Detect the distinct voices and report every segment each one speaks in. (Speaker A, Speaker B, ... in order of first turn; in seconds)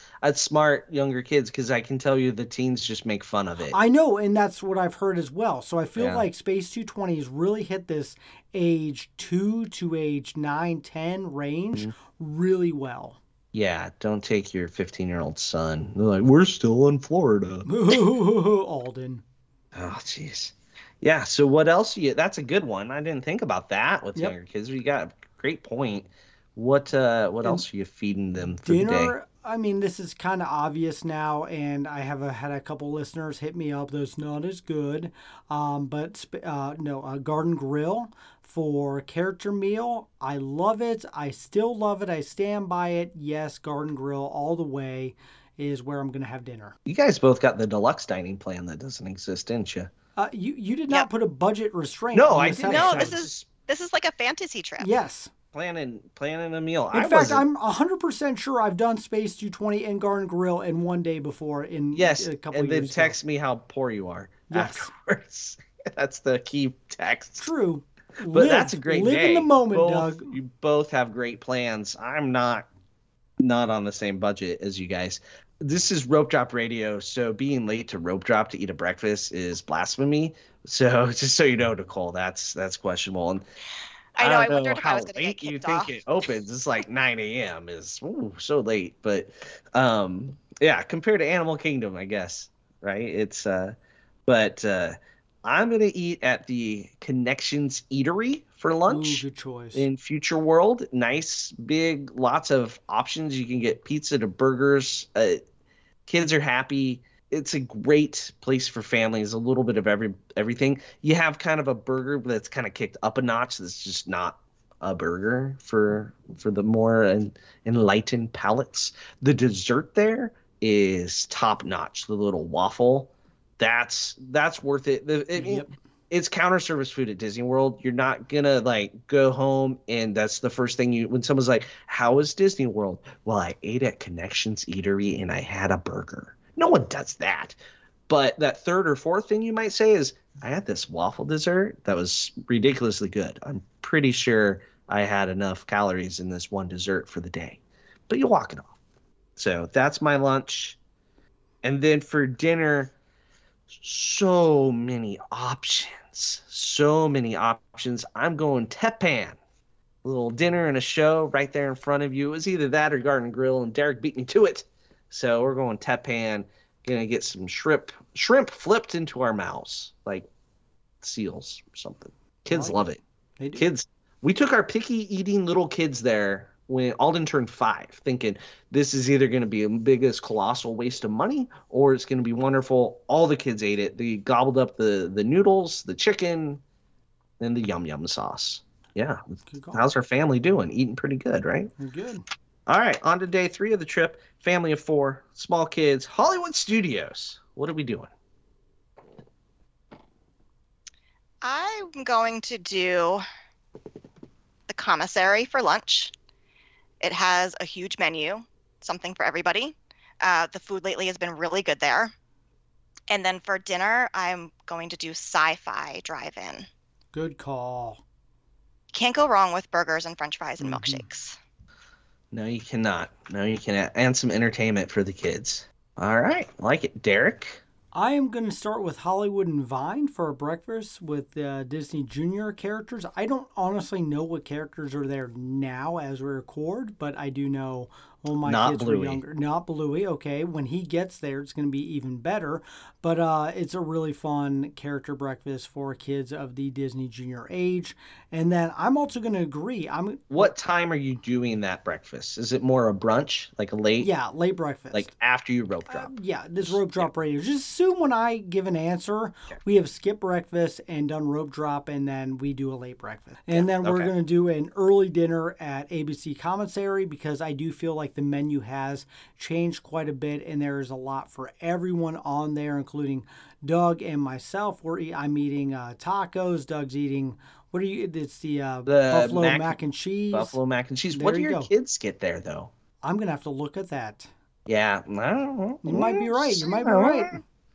Speaker A: 0.2-3.8, 6.0-6.2, 13.5-18.0, 19.7-29.1, 46.9-49.9, 52.1-53.4, 55.5-57.5, 61.9-67.4, 68.3-72.7, 73.4-83.5, 84.2-93.8, 94.3-105.4, 106.1-137.6, 138.1-148.8, 149.4-150.8, 151.6-152.9, 153.7-159.4, 160.0-170.3, 171.0-173.0, 173.6-186.6, 187.4-191.7, 192.7-198.1, 222.3-227.6, 238.4-239.2, 250.3-254.1, 254.9-257.1, 263.5-264.1, 278.9-279.8, 280.3-282.7, 284.7-287.4
Speaker B: 3.7-13.2, 17.7-19.2, 28.6-46.8, 50.2-53.2, 54.8-55.3, 56.9-63.2, 64.5-64.9, 67.4-70.3, 98.9-99.9, 125.3-125.8, 172.5-172.8, 173.4-173.7, 189.5-189.8, 191.8-192.3, 217.1-218.0, 220.6-221.0, 227.9-250.5, 254.0-255.1, 255.9-280.6, 281.1-281.7, 283.0-284.3, 285.8-287.4
Speaker C: 52.6-54.9, 84.2-86.0, 201.4-203.2, 204.7-206.1, 207.0-212.1, 213.1-216.7, 218.9-221.4